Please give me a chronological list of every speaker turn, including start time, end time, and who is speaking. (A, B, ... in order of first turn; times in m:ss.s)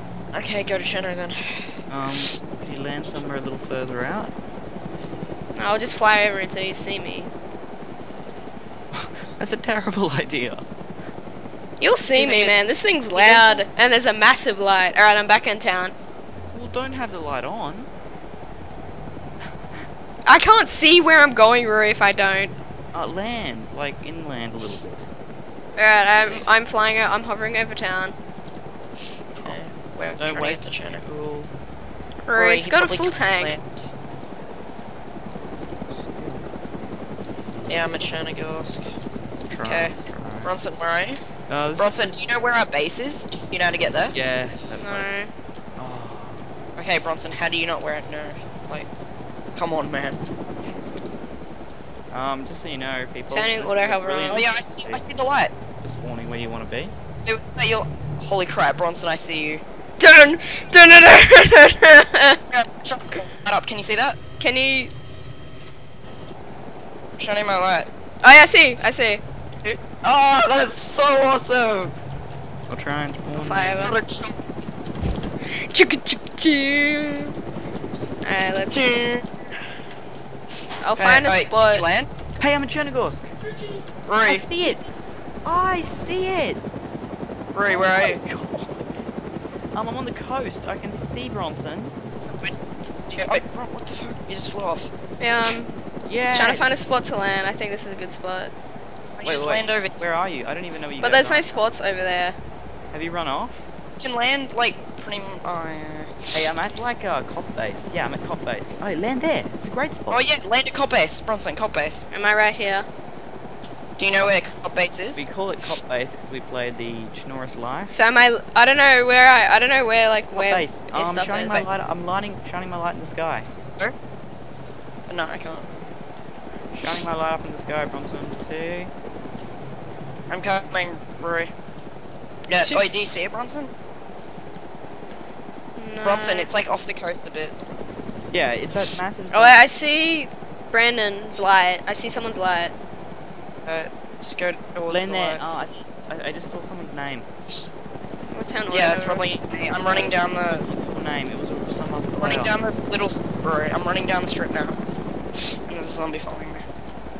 0:00.3-0:02.2 A
0:01.9-0:04.3 B
0:05.5-0:07.3 C
0:08.9-0:10.6 B
0:11.8-0:15.9 C
0:12.1-0:12.6 A
0:13.1-0:13.7 A
0:16.5-0:17.9 B
0:20.2-0:22.5 C
0:22.9-0:25.1 B
0:25.8-0:28.1 C
0:29.4-0:31.0 A
0:30.2-0:31.5 B
0:32.2-0:33.6 C
0:32.3-0:33.6 A
0:36.1-0:36.4 B
0:37.7-0:38.9 A
0:39.4-0:40.5 B
0:39.6-0:41.2 A
0:41.5-0:42.0 B
0:41.8-0:44.1 A
0:44.1-0:45.1 B
0:44.8-0:45.3 C
0:45.8-0:46.5 B
0:46.8-0:48.9 A
0:49.5-0:50.2 A
0:52.1-0:55.0 B
0:53.3-0:54.4 C
0:54.3-0:55.5 A
0:55.8-0:56.9 B
0:57.2-0:59.6 A
1:00.0-1:02.4 C
1:02.5-1:04.2 A
1:04.4-1:04.9 C
1:07.2-1:07.9 A
1:08.2-1:09.2 C
1:09.6-1:11.9 A
1:12.7-1:13.8 B
1:13.4-1:13.9 C
1:13.5-1:14.4 A
1:15.4-1:17.3 C
1:18.2-1:18.9 C
1:18.7-1:19.3 A
1:20.8-1:21.8 C
1:21.0-1:22.1 A
1:22.4-1:23.3 B
1:24.1-1:24.5 A
1:24.2-1:24.8 B
1:25.4-1:26.6 B
1:27.5-1:28.2 A
1:27.7-1:29.0 B
1:29.7-1:31.9 B
1:32.2-1:32.5 A
1:33.1-1:34.9 A
1:35.2-1:35.7 C
1:36.0-1:36.7 B
1:36.3-1:38.5 C
1:39.2-1:40.0 A
1:39.2-1:41.7 B
1:41.0-1:42.4 C
1:42.9-1:43.6 B
1:44.0-1:46.3 A
1:46.3-1:50.2 B
1:50.1-1:52.1 A
1:52.1-1:52.9 C
1:54.0-1:55.2 A
1:55.2-1:58.0 B
1:57.9-2:01.7 C
2:00.3-2:03.5 B
2:05.1-2:05.6 A
2:06.7-2:08.9 B
2:10.3-2:11.5 A
2:12.5-2:13.7 A
2:15.8-2:16.5 C
2:16.0-2:17.5 A
2:18.3-2:19.6 B
2:19.3-2:22.7 C
2:23.6-2:25.6 A
2:24.9-2:27.2 B
2:28.3-2:29.3 C
2:28.7-2:30.6 A
2:29.6-2:32.5 B
2:32.2-2:34.8 A
2:35.7-2:36.6 A